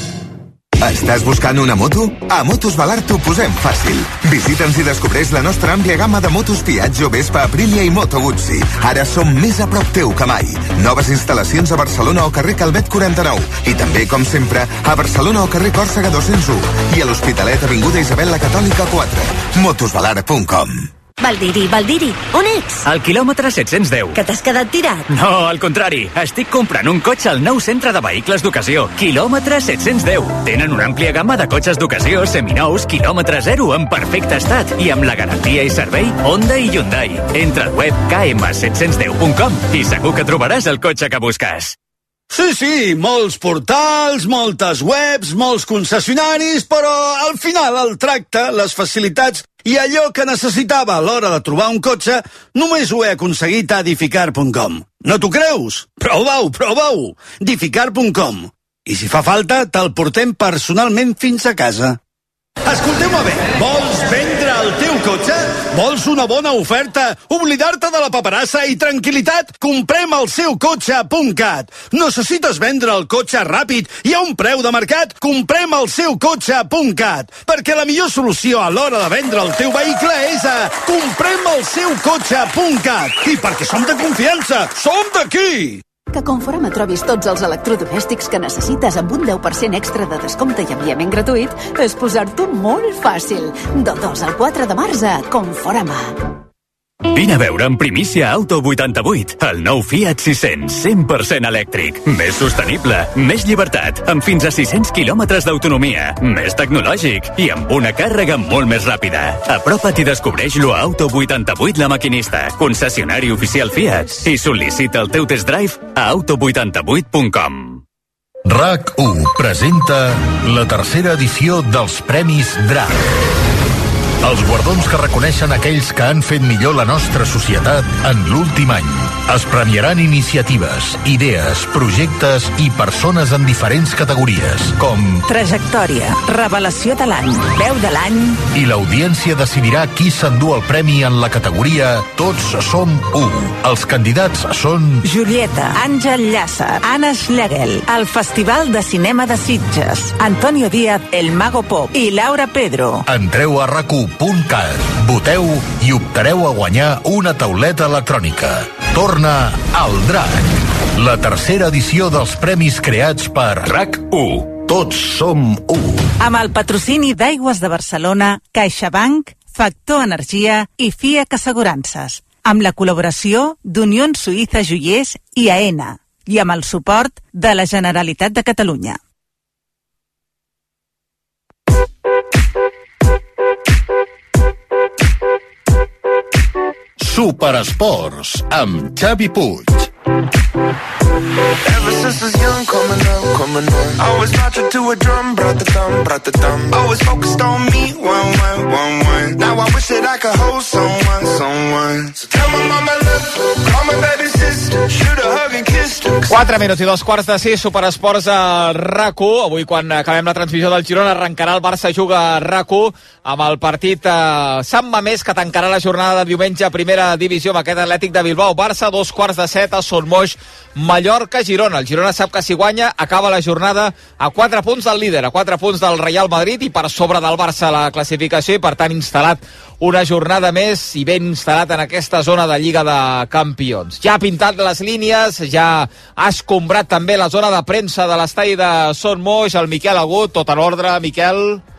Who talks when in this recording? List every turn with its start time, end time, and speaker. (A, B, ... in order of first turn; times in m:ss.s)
0:00.8-0:20.9 A
0:21.2-0:22.8 B
0:22.8-0:24.2 C
0:24.1-0:25.0 B
0:25.0-0:41.8 C
0:42.3-1:02.0 D
1:02.6-1:25.8 D
1:26.1-1:36.2 E
1:37.1-1:57.8 C
1:58.4-2:03.0 F
2:04.2-2:15.2 F
2:15.2-2:18.4 G
2:18.5-2:25.0 F
2:25.0-2:33.0 G
2:33.0-2:46.1 F
2:44.0-2:44.5 C
2:46.2-2:59.0 G
3:07.0-3:09.9 F
3:11.6-3:26.4 H
3:26.3-4:01.6 I